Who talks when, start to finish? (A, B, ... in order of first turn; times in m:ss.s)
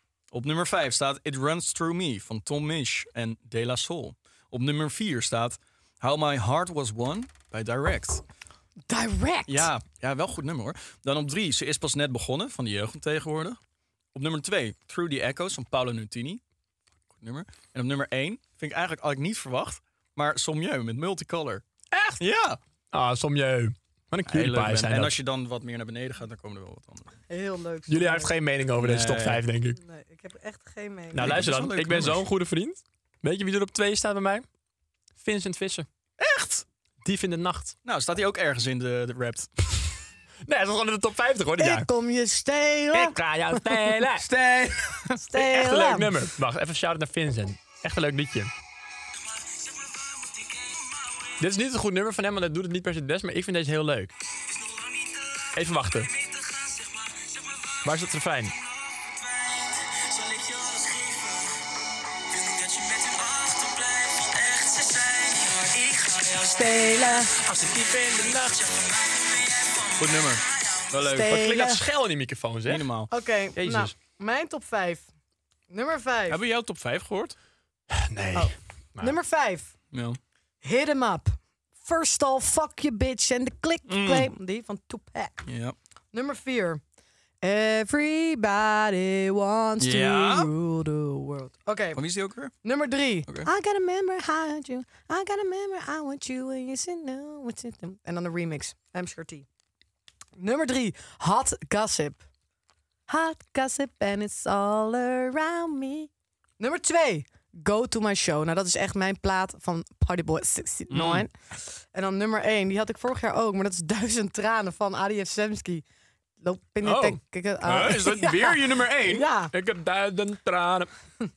0:00.3-0:08.2 A
0:08.9-0:09.7 B
0:09.5-0:13.6 A
0:14.2-0:16.4 A
0:17.2-0:21.6 A
0:21.9-0:22.2 C
0:22.2-0:22.6 A
0:22.9-0:25.2 C
0:24.3-0:27.2 A
0:27.3-0:28.3 B
0:27.9-0:29.8 C
0:28.8-0:29.4 A
0:29.8-0:31.4 B
0:31.1-0:34.5 C
0:31.2-0:32.2 A
0:35.2-0:35.9 C
0:36.2-0:36.6 A
0:37.0-0:37.8 C
0:37.8-0:39.5 A
0:40.4-0:41.9 C
0:41.6-0:43.9 B
0:42.9-0:44.3 C
0:44.2-0:45.0 A
0:45.1-0:46.2 B
0:45.2-0:48.5 C
0:51.4-0:54.1 C
0:55.4-0:56.1 C
0:57.7-0:58.6 C
1:06.4-1:07.3 B
1:07.4-1:08.8 C
1:10.0-1:11.4 A
1:11.0-1:11.9 B
1:11.2-1:12.9 C
1:12.7-1:13.1 A
1:13.1-1:15.1 B
1:13.6-1:13.9 C
1:15.7-1:16.4 B
1:16.3-1:17.4 A
1:17.9-1:19.2 C
1:18.4-1:19.7 B
1:19.9-1:20.2 A
1:20.6-1:25.5 B
1:23.9-1:24.3 A
1:25.5-1:25.8 A
1:26.1-1:26.8 B
1:27.4-1:32.0 B
1:29.8-1:30.5 A
1:32.0-1:32.6 A
1:32.6-1:39.5 B
1:40.4-1:42.2 B
1:43.1-1:51.3 B
1:50.9-1:51.2 A
1:51.9-1:55.8 B
1:56.4-1:59.5 B
1:56.8-1:57.2 C
1:57.6-1:59.3 A
1:59.5-2:00.9 C